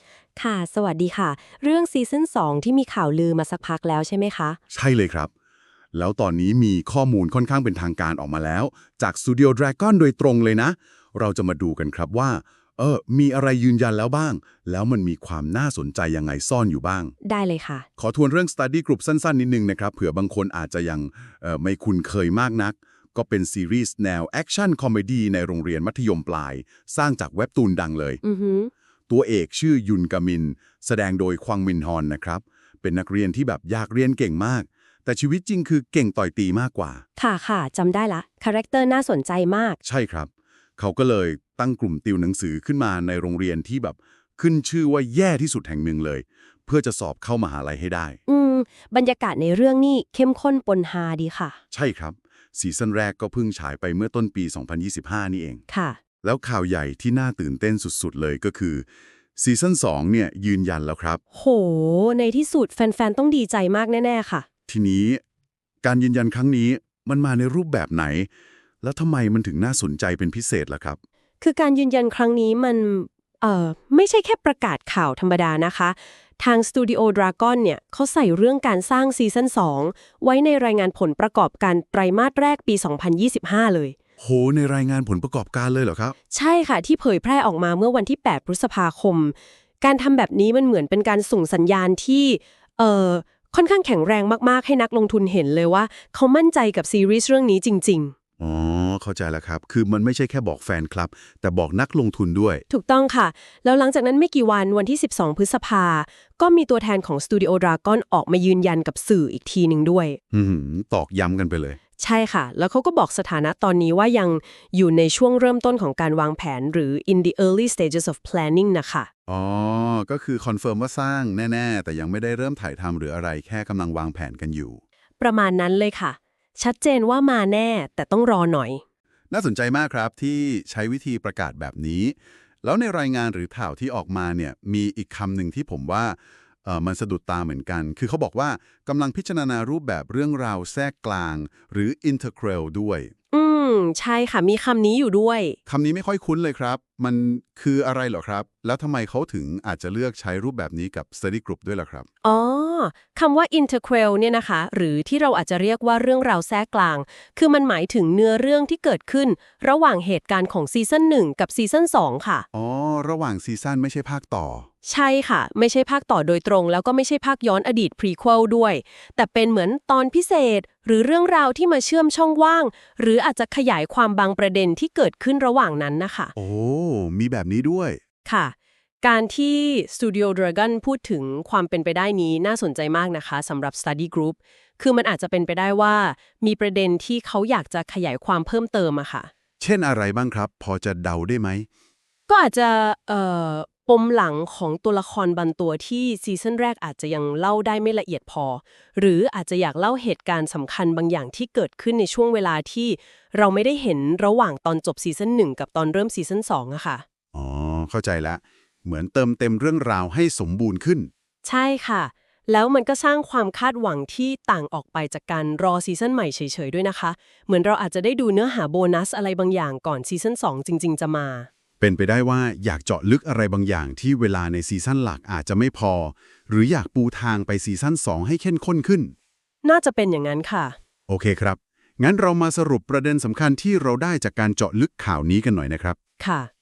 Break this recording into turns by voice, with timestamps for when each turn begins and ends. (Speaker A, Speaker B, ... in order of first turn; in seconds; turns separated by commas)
Speaker A: 0.4-4.6, Speaker B: 4.7-5.3, Speaker B: 5.9-17.1, Speaker A: 17.2-17.9, Speaker B: 18.0-28.2, Speaker A: 28.2-28.7, Speaker B: 29.1-37.0, Speaker A: 37.2-39.8, Speaker B: 39.8-48.2, Speaker A: 48.3-51.6, Speaker B: 51.7-55.6, Speaker A: 55.7-56.0, Speaker B: 56.2-61.2, Speaker A: 61.3-64.5, Speaker B: 64.7-65.2, Speaker B: 65.8-68.3, Speaker B: 68.8-71.0, Speaker A: 71.4-84.0, Speaker B: 84.2-86.2, Speaker A: 86.3-98.2, Speaker B: 98.4-102.6, Speaker A: 102.7-110.2, Speaker B: 110.3-111.8, Speaker A: 112.0-119.1, Speaker B: 119.3-124.8, Speaker A: 125.2-128.8, Speaker B: 129.3-143.1, Speaker A: 143.3-145.6, Speaker B: 145.7-152.1, Speaker A: 152.2-162.5, Speaker B: 162.5-164.7, Speaker A: 164.8-176.3, Speaker B: 176.4-178.0, Speaker A: 178.2-189.3, Speaker B: 189.6-191.7, Speaker A: 192.3-207.0, Speaker B: 207.3-211.1, Speaker A: 211.4-221.5, Speaker B: 221.8-229.1, Speaker A: 229.6-230.8, Speaker B: 231.1-236.0, Speaker A: 236.2-236.5